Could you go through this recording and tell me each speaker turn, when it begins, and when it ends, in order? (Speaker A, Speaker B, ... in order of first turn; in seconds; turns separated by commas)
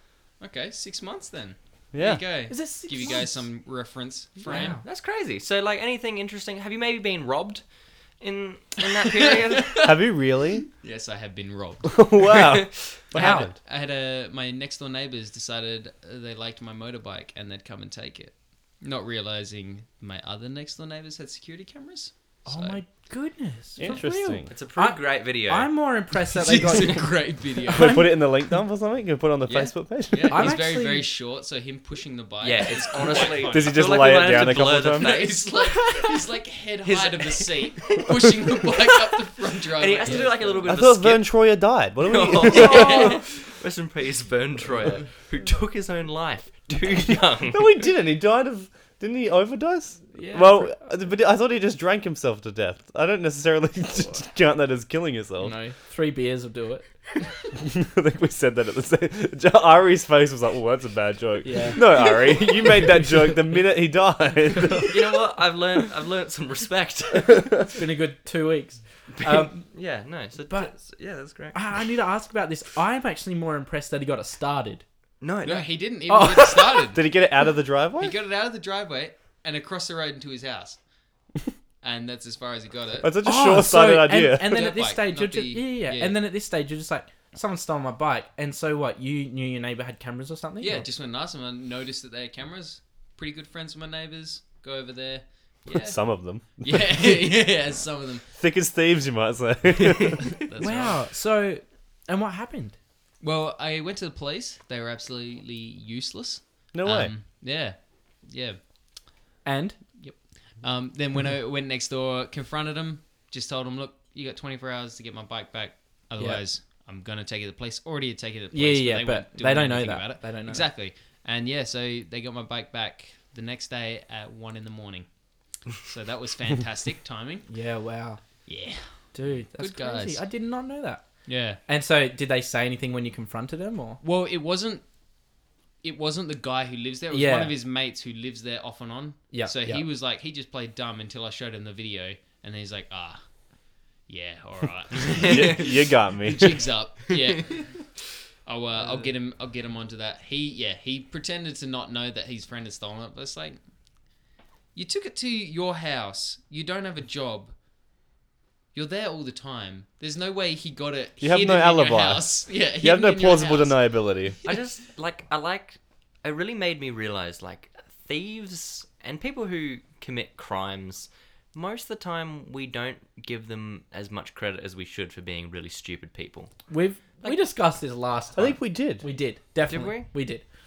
Speaker A: 0.4-4.8, Speaker B: 1.9-2.2, Speaker C: 2.5-3.4, Speaker D: 4.4-7.6, Speaker C: 4.5-4.8, Speaker D: 8.2-9.9, Speaker B: 9.8-10.7, Speaker A: 10.8-12.3, Speaker B: 11.9-13.5, Speaker A: 13.1-22.8, Speaker C: 13.1-13.5, Speaker C: 22.4-28.3, Speaker B: 23.8-24.5, Speaker D: 24.5-25.7, Speaker A: 26.3-28.0, Speaker B: 27.7-30.5, Speaker A: 29.5-34.2, Speaker C: 30.3-31.1, Speaker D: 32.4-36.1, Speaker B: 33.4-35.2, Speaker A: 34.9-40.7, Speaker D: 36.8-38.7, Speaker D: 39.7-41.4, Speaker C: 40.0-40.4, Speaker B: 40.6-43.2, Speaker D: 42.0-47.8, Speaker A: 42.9-43.2, Speaker B: 47.5-55.5, Speaker C: 50.1-50.8, Speaker C: 55.4-56.9, Speaker B: 57.5-65.3, Speaker C: 61.4-62.0, Speaker C: 62.8-63.3, Speaker D: 64.7-67.6, Speaker B: 67.2-67.7, Speaker C: 67.7-69.7, Speaker D: 69.2-71.6, Speaker C: 71.5-74.8, Speaker D: 75.2-75.8, Speaker A: 75.4-77.0, Speaker C: 76.1-76.9, Speaker B: 76.9-78.2, Speaker A: 78.0-80.8, Speaker A: 81.8-83.2, Speaker B: 83.0-84.6, Speaker C: 83.2-90.8, Speaker A: 84.4-86.2, Speaker A: 90.6-96.0, Speaker B: 95.7-97.5, Speaker A: 96.6-98.2, Speaker B: 98.3-100.2, Speaker A: 100.0-101.0, Speaker C: 100.6-102.8, Speaker A: 103.2-108.6, Speaker B: 106.7-107.1, Speaker C: 109.4-109.8, Speaker A: 109.9-127.5, Speaker C: 116.2-116.5, Speaker C: 118.5-120.7, Speaker C: 127.5-128.5, Speaker A: 128.4-128.9, Speaker C: 129.1-134.0, Speaker A: 129.5-130.2, Speaker A: 131.2-131.6, Speaker A: 134.0-134.8, Speaker A: 135.8-143.2, Speaker C: 137.1-137.6, Speaker C: 139.3-139.8, Speaker A: 144.0-147.7, Speaker B: 145.2-146.7, Speaker D: 147.1-147.3, Speaker A: 148.4-153.6, Speaker A: 154.7-157.5, Speaker A: 158.7-163.8, Speaker B: 161.2-164.4, Speaker D: 164.4-176.5, Speaker C: 176.7-180.4, Speaker B: 178.3-179.0, Speaker D: 179.7-180.1